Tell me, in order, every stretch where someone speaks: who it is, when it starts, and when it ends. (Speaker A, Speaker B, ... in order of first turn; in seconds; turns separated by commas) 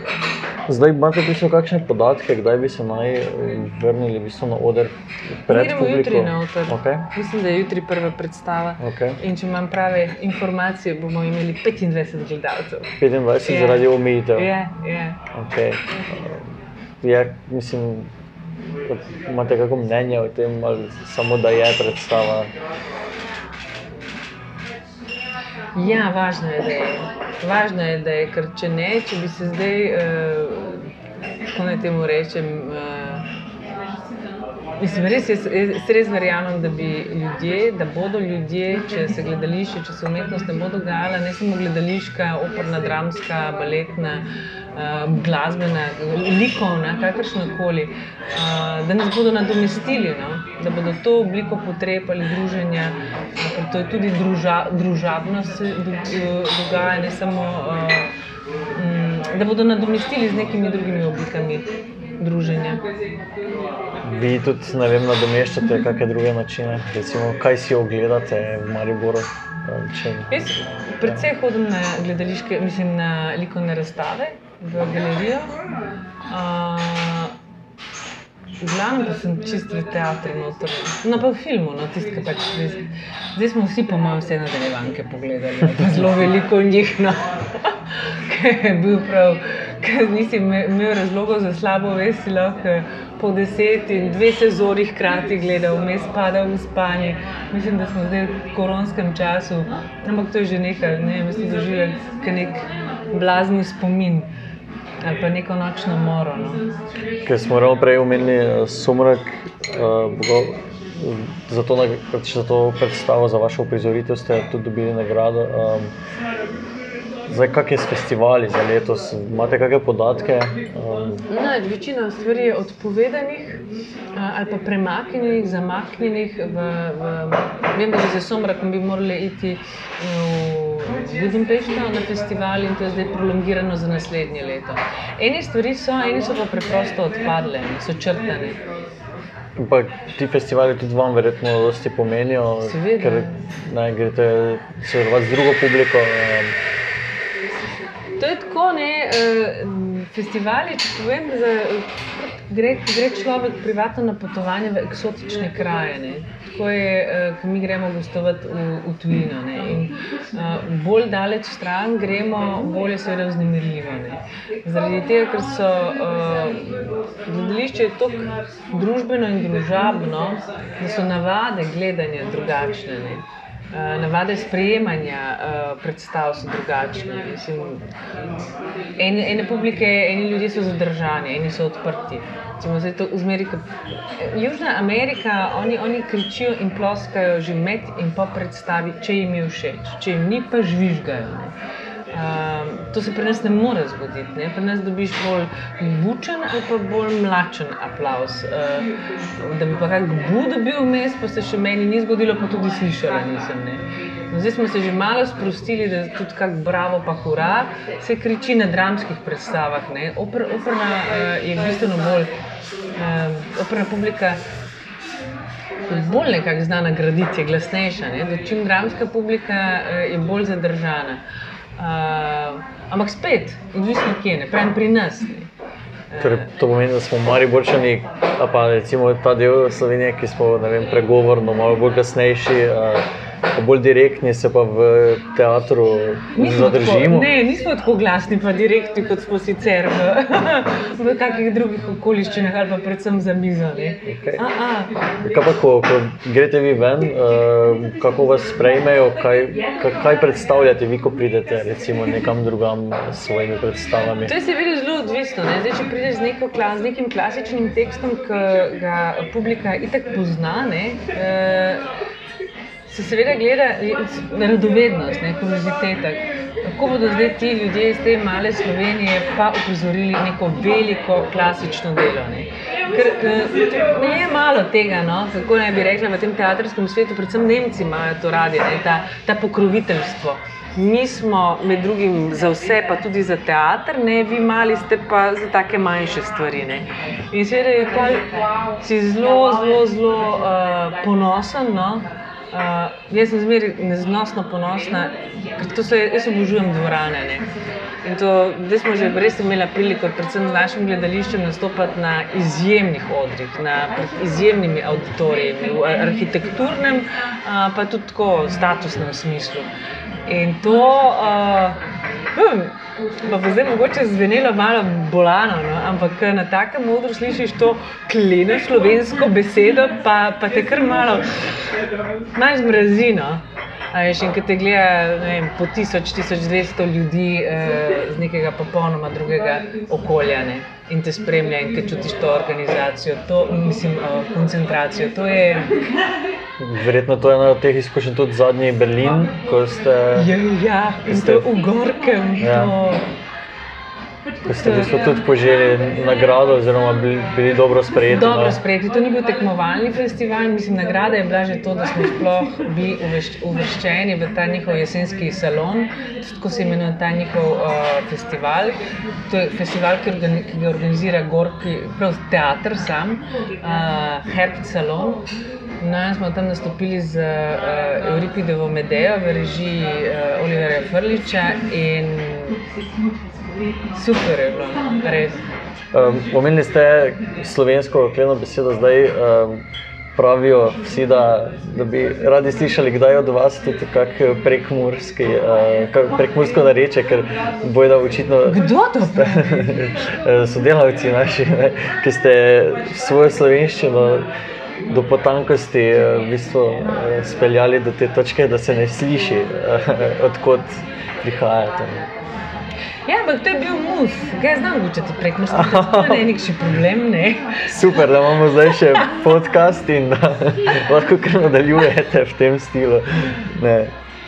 Speaker A: 0.7-7.0, Speaker B: 5.5-12.9, Speaker A: 8.8-9.2, Speaker A: 13.0-14.5, Speaker B: 13.4-15.2, Speaker A: 15.3-18.1, Speaker A: 18.8-22.5, Speaker B: 25.7-30.8, Speaker B: 31.5-33.2, Speaker B: 34.8-58.1, Speaker B: 58.7-61.7, Speaker B: 62.2-62.8, Speaker A: 64.0-70.4, Speaker B: 70.3-75.5, Speaker B: 76.3-77.3, Speaker B: 78.6-104.3, Speaker B: 105.0-106.6, Speaker A: 107.2-115.9, Speaker A: 117.3-121.2, Speaker B: 121.3-123.6, Speaker B: 124.1-138.6, Speaker A: 139.6-146.6, Speaker B: 142.6-143.4, Speaker B: 148.2-177.9, Speaker B: 179.0-191.5, Speaker B: 192.1-212.3, Speaker B: 212.9-214.4, Speaker B: 215.9-221.2, Speaker B: 221.8-225.5, Speaker B: 226.1-226.5, Speaker A: 226.2-237.3, Speaker B: 236.3-244.9, Speaker A: 244.1-244.4, Speaker A: 245.2-254.3, Speaker B: 254.2-261.8, Speaker B: 262.9-288.3, Speaker B: 288.8-297.5, Speaker B: 298.0-309.7, Speaker B: 310.3-311.8, Speaker B: 312.3-321.3, Speaker B: 322.3-335.7, Speaker A: 336.6-340.3, Speaker B: 340.1-343.0, Speaker A: 341.1-341.4, Speaker A: 342.4-342.7, Speaker A: 344.4-348.6, Speaker B: 344.6-344.9, Speaker B: 348.1-365.2, Speaker B: 365.8-372.6, Speaker B: 373.9-375.4, Speaker A: 375.9-379.6, Speaker A: 380.1-394.3, Speaker B: 388.4-389.8, Speaker A: 394.9-402.1, Speaker B: 403.1-409.1, Speaker A: 405.5-406.3, Speaker A: 407.7-413.9